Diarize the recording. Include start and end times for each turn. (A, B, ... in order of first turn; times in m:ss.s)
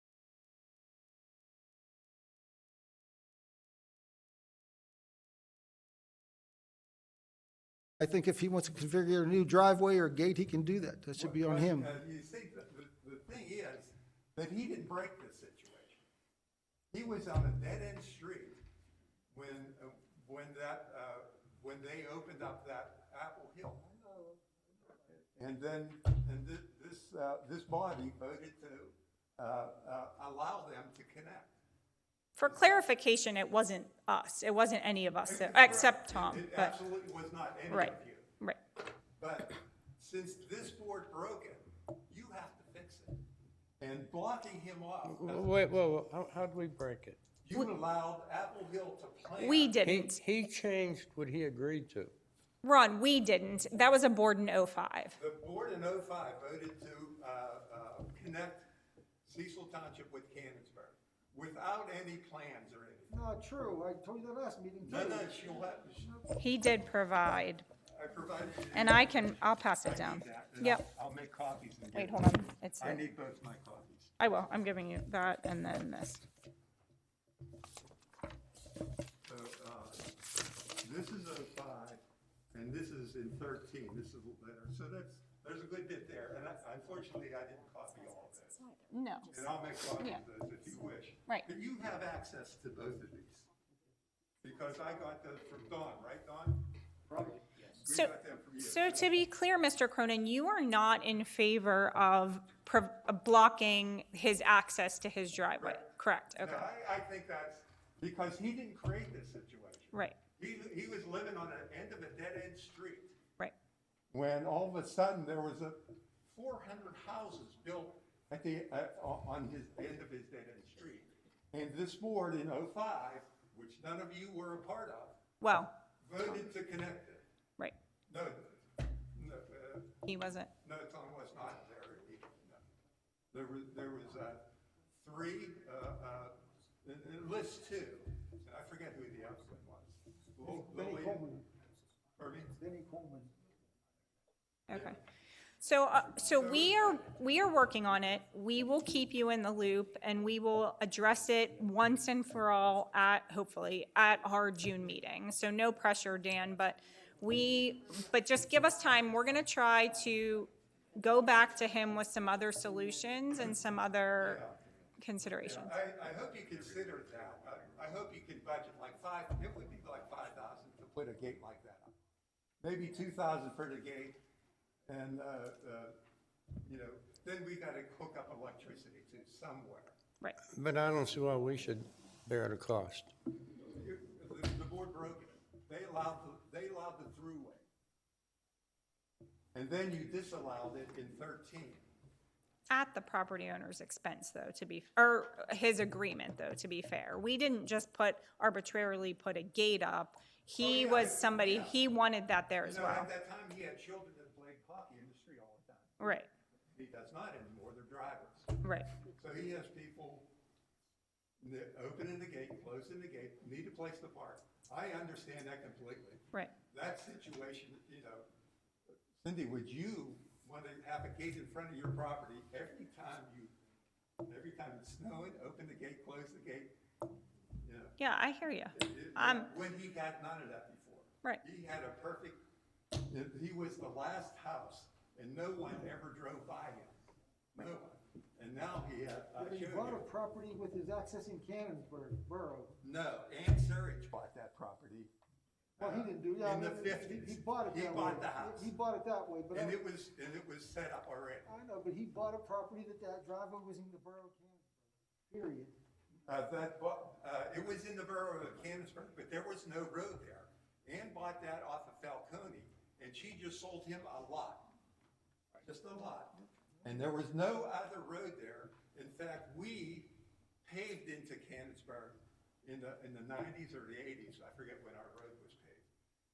0:08.0-0:11.9 A
0:11.2-0:16.0 B
0:16.9-0:18.6 B
0:19.3-0:23.8 B
0:23.8-0:25.1 A
0:25.4-0:31.5 B
0:32.4-0:36.7 C
0:35.2-0:38.3 B
0:37.7-0:38.6 C
0:39.2-0:43.2 B
0:43.8-0:45.6 B
0:45.0-0:47.2 D
0:47.4-0:49.8 B
0:49.4-0:50.2 C
0:49.8-0:52.1 D
0:52.6-0:55.2 C
0:55.2-0:58.7 B
0:59.2-1:03.2 B
1:03.1-1:06.1 A
1:04.8-1:06.1 B
1:06.4-1:07.6 C
1:07.9-1:14.1 B
1:08.7-1:10.8 C
1:11.9-1:13.0 C
1:14.2-1:16.2 C
1:19.2-1:20.2 B
1:20.8-1:22.0 B
1:22.5-1:28.6 B
1:28.9-1:29.3 C
1:29.3-1:33.5 B
1:34.4-1:36.6 B
1:37.1-1:37.4 A
1:37.8-1:39.1 B
1:37.9-1:46.7 C
1:45.6-1:53.2 B
1:54.1-2:05.2 B
2:05.4-2:05.7 C
2:06.0-2:07.2 B
2:08.1-2:10.0 B
2:10.0-2:10.5 C
2:10.6-2:12.6 B
2:13.3-2:14.5 B
2:15.0-2:21.2 B
2:20.4-2:21.5 A
2:22.2-2:22.6 B
2:22.5-2:23.3 A
2:24.7-2:25.0 C
2:25.6-2:44.4 C
2:26.3-2:27.0 B
2:44.2-2:44.6 B
2:45.0-2:45.7 C
2:45.4-2:51.9 B
2:52.6-2:54.2 B
2:54.9-2:56.0 B
2:56.6-2:59.9 B
3:00.5-3:03.1 D
3:03.7-3:07.6 B
3:09.5-3:11.8 B
3:12.7-3:23.1 C
3:20.6-3:21.8 B
3:22.6-3:26.1 B
3:26.0-3:26.3 C
3:26.7-3:28.6 B
3:28.6-3:28.9 C
3:29.1-3:30.3 B
3:31.4-3:38.3 B
3:39.2-3:43.5 B
3:44.2-3:46.7 B
3:47.6-3:48.0 B
3:48.0-3:49.5 C
3:48.7-3:52.4 B
3:53.1-3:57.0 B
3:57.5-4:00.0 B
3:59.4-4:02.8 A
4:02.8-4:05.1 B
4:05.8-4:08.7 B
4:05.8-4:09.8 A
4:09.5-4:11.5 B
4:11.4-4:14.8 A
4:15.3-4:15.7 A
4:16.3-4:24.7 B
4:25.6-4:35.9 B